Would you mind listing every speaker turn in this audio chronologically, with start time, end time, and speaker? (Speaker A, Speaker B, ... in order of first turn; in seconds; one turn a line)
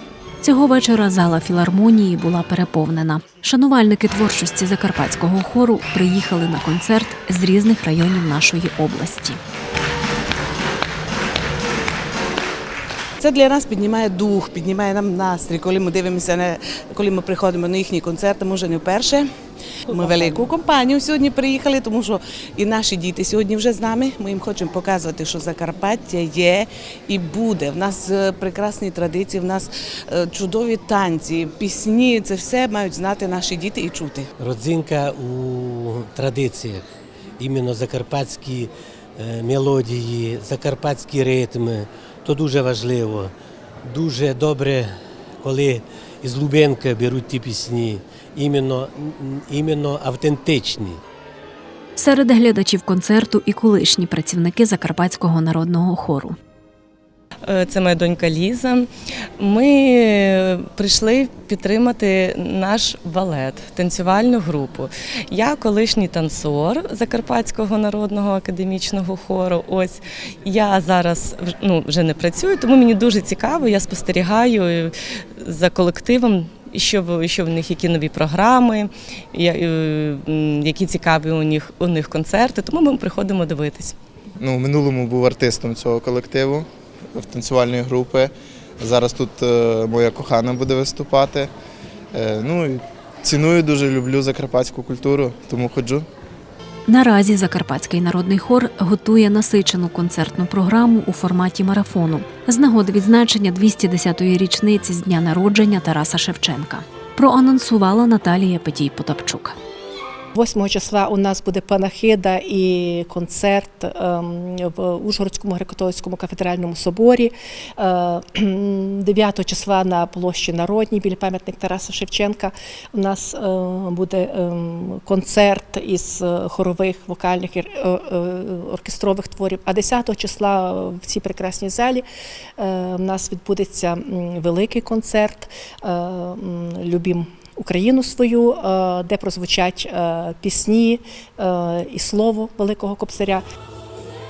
Speaker A: 0.4-9.4
Speaker B: 13.2-19.3
Speaker B: 19.9-34.3
Speaker C: 34.4-36.9
Speaker C: 37.4-43.3
Speaker C: 43.8-51.0
Speaker A: 52.0-56.4
Speaker D: 57.5-58.9
Speaker D: 59.4-84.0
Speaker E: 84.4-91.5
Speaker E: 92.1-96.1
Speaker A: 96.9-109.6
Speaker F: 110.3-132.1
Speaker F: 132.6-143.4